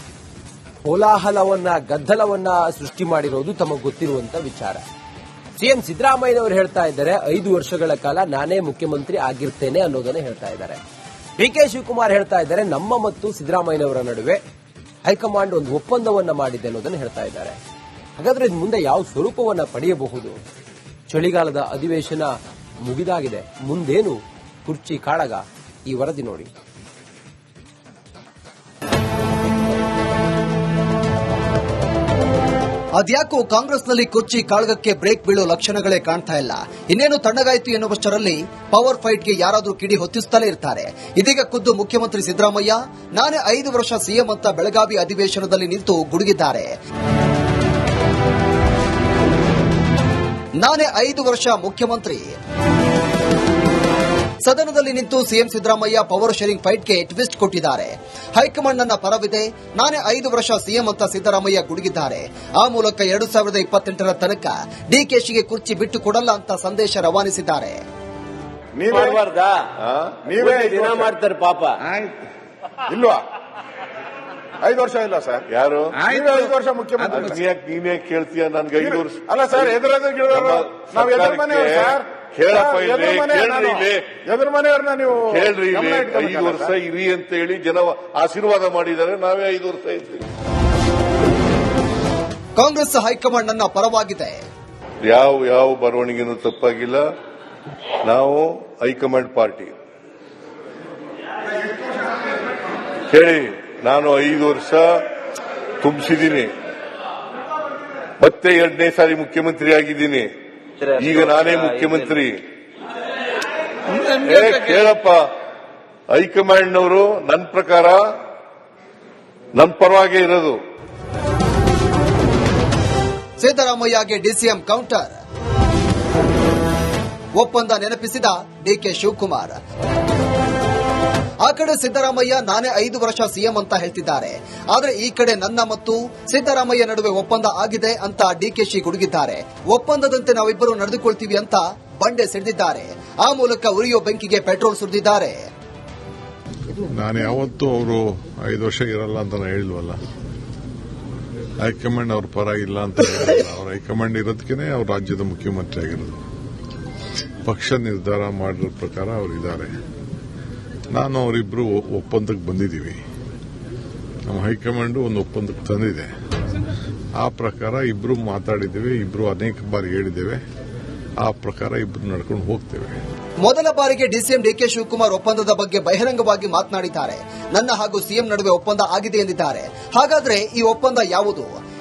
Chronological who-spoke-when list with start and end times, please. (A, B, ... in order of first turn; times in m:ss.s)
0:00.8-0:04.8 A
0:05.6-0:10.8 A
0:11.4-0:14.4 A
0:15.0-0:17.6 A
0:18.2-0:20.4 A
0:21.1-0:26.5 A
0:33.0-0:46.7 B
0:50.6-0:52.3 B
0:54.4-1:07.8 B
1:08.8-1:09.2 C
1:08.9-1:09.7 D
1:09.8-1:10.3 E
1:10.2-1:11.1 C
1:10.4-1:12.0 D
1:12.9-1:13.2 C
1:14.6-1:15.4 C
1:15.5-1:16.1 E
1:16.0-1:17.3 C
1:17.1-1:19.7 E
1:18.8-1:26.7 C
1:20.3-1:24.2 E
1:25.3-1:30.2 E
1:32.6-1:34.4 B
1:35.0-1:37.0 E
1:38.0-1:39.7 E
1:43.1-1:45.0 E
1:45.8-1:46.5 E
1:48.2-1:50.3 E
1:50.8-1:52.0 D
1:50.9-1:52.4 E
1:53.9-1:55.3 E
1:56.1-1:58.0 E
1:59.5-2:00.6 E
2:03.4-2:05.1 B
2:07.4-2:09.6 B
2:11.4-2:25.4 B
2:26.8-2:30.0 F
2:31.6-2:36.2 F
2:37.4-2:39.7 F
2:40.9-2:43.0 F
2:44.3-2:46.1 F
2:47.2-2:50.4 F
2:51.2-2:53.0 F
2:53.4-3:01.5 B